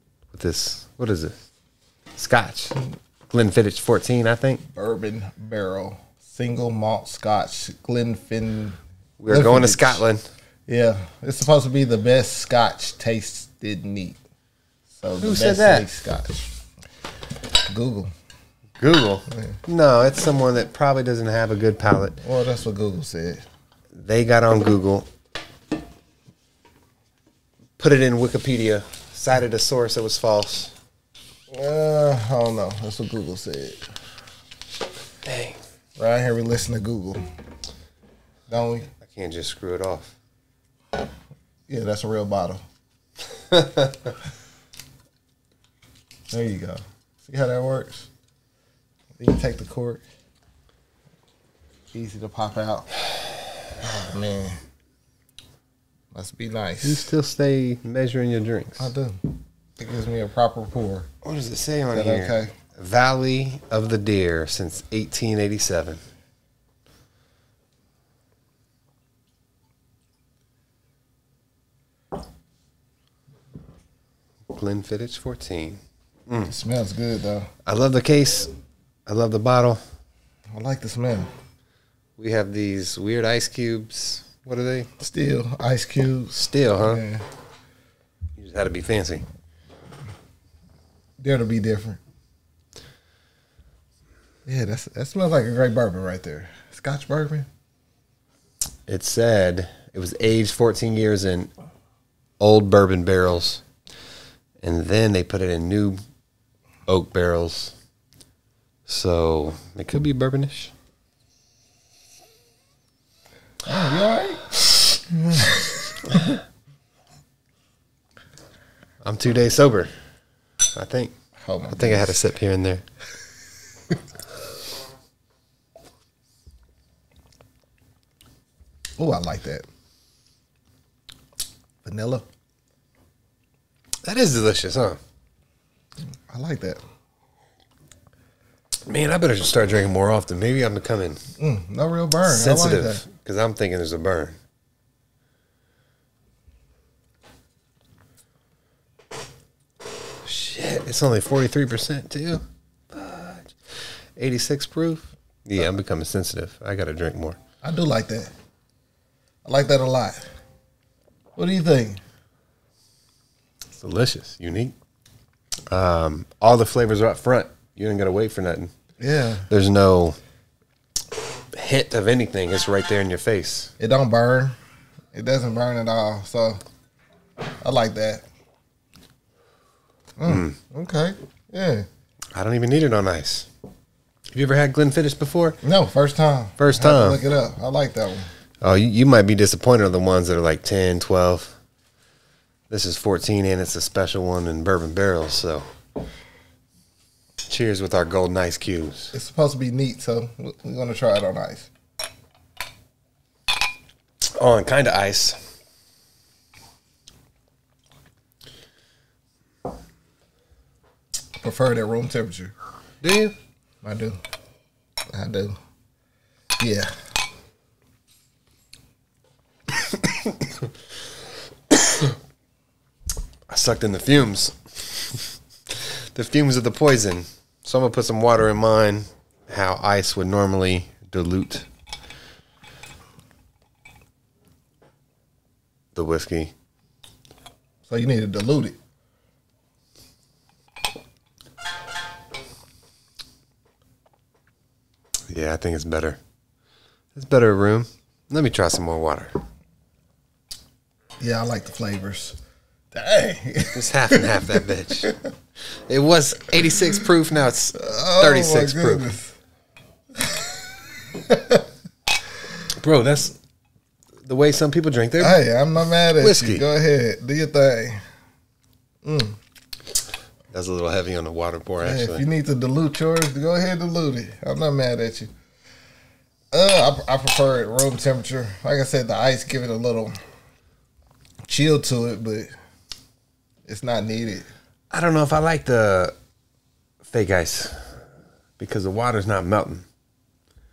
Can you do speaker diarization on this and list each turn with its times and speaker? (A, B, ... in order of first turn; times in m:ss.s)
0:00.3-0:01.3 A
0:02.2-0:02.8 A
0:03.3-0:04.6 A
0:04.7-0:08.8 B
0:09.2-0:10.2 A
0:09.3-0:10.0 B
0:10.7-0:14.2 B
0:15.0-0:16.5 B
0:15.2-0:15.9 A
0:17.7-0:18.1 B
0:18.8-0:22.2 A
0:19.3-0:19.6 B
0:22.2-0:23.4 B
0:23.9-0:25.1 A
0:27.8-0:30.7 A
0:31.5-0:33.8 B
0:35.2-0:35.6 A
0:36.0-0:37.2 B
0:38.5-0:38.9 B
0:39.0-0:40.1 A
0:41.7-0:42.6 B
0:43.5-0:43.9 A
0:46.3-0:48.1 B
0:49.2-0:50.0 B
0:51.9-0:52.9 B
0:53.8-0:54.6 B
0:56.1-0:57.1 B
0:56.8-0:58.9 A
0:58.8-1:01.1 B
1:01.2-1:06.0 A
1:01.9-1:02.5 B
1:14.5-1:16.5 A
1:16.5-1:17.5 B
1:17.6-1:18.5 A
1:19.1-1:19.8 A
1:20.5-1:21.3 B
1:22.2-1:24.9 A
1:25.0-1:27.2 B
1:26.3-1:27.0 A
1:28.4-1:29.2 A
1:31.2-1:32.0 B
1:34.4-1:37.5 B
1:38.9-1:41.5 A
1:42.4-1:43.6 A
1:44.6-1:46.0 A
1:46.9-1:47.7 A
1:48.9-1:50.7 A
1:53.7-1:54.4 B
1:55.1-1:56.2 B
1:59.0-1:59.9 A
2:00.7-2:01.1 A
2:01.4-2:02.2 B
2:01.7-2:02.8 A
2:09.0-2:09.6 B
2:11.8-2:12.2 B
2:14.0-2:15.0 A
2:16.3-2:16.8 B
2:18.8-2:21.2 A
2:21.4-2:23.0 B
2:22.2-2:24.4 A
2:30.2-2:33.5 A
2:34.2-2:37.4 A
2:37.6-2:38.3 B
2:39.4-2:40.2 B
2:41.4-2:42.0 B
2:43.8-2:44.7 A
2:45.7-2:48.7 A
2:49.0-2:49.5 B
2:49.5-2:50.2 A
2:51.5-2:53.7 A
2:53.8-2:54.5 B
2:55.1-2:56.6 B
2:57.6-2:58.2 B
3:00.2-3:01.9 B
3:00.2-3:00.6 A
3:02.3-3:03.5 A
3:04.3-3:05.6 A
3:05.6-3:08.3 B
3:06.6-3:07.2 A
3:08.6-3:11.6 A
3:12.7-3:15.6 A
3:17.5-3:19.1 A
3:19.1-3:21.7 B
3:24.3-3:25.4 A
3:31.4-3:32.5 B
3:33.0-3:33.3 A
3:33.8-3:34.2 B
3:35.1-3:35.5 B
3:36.6-3:36.9 B
3:39.9-3:40.5 A
3:41.7-3:42.0 A
3:43.5-3:51.7 A
3:55.9-3:56.5 A
3:57.9-3:58.8 B
4:05.3-4:06.2 A
4:07.1-4:09.3 A
4:11.2-4:12.4 B
4:12.9-4:15.1 B
4:13.7-4:15.1 A
4:15.9-4:19.1 A
4:17.7-4:19.4 B
4:20.2-4:20.5 B
4:21.2-4:21.6 B
4:22.8-4:23.3 A
4:24.2-4:25.4 A
4:25.2-4:28.0 B
4:26.2-4:26.6 A
4:29.0-4:29.4 B
4:30.5-4:32.2 A
4:31.8-4:35.3 B
4:36.5-4:40.2 B
4:41.4-4:42.5 B
4:43.6-4:44.5 B
4:44.9-4:46.1 A
4:47.0-4:47.8 A
4:48.6-4:49.8 A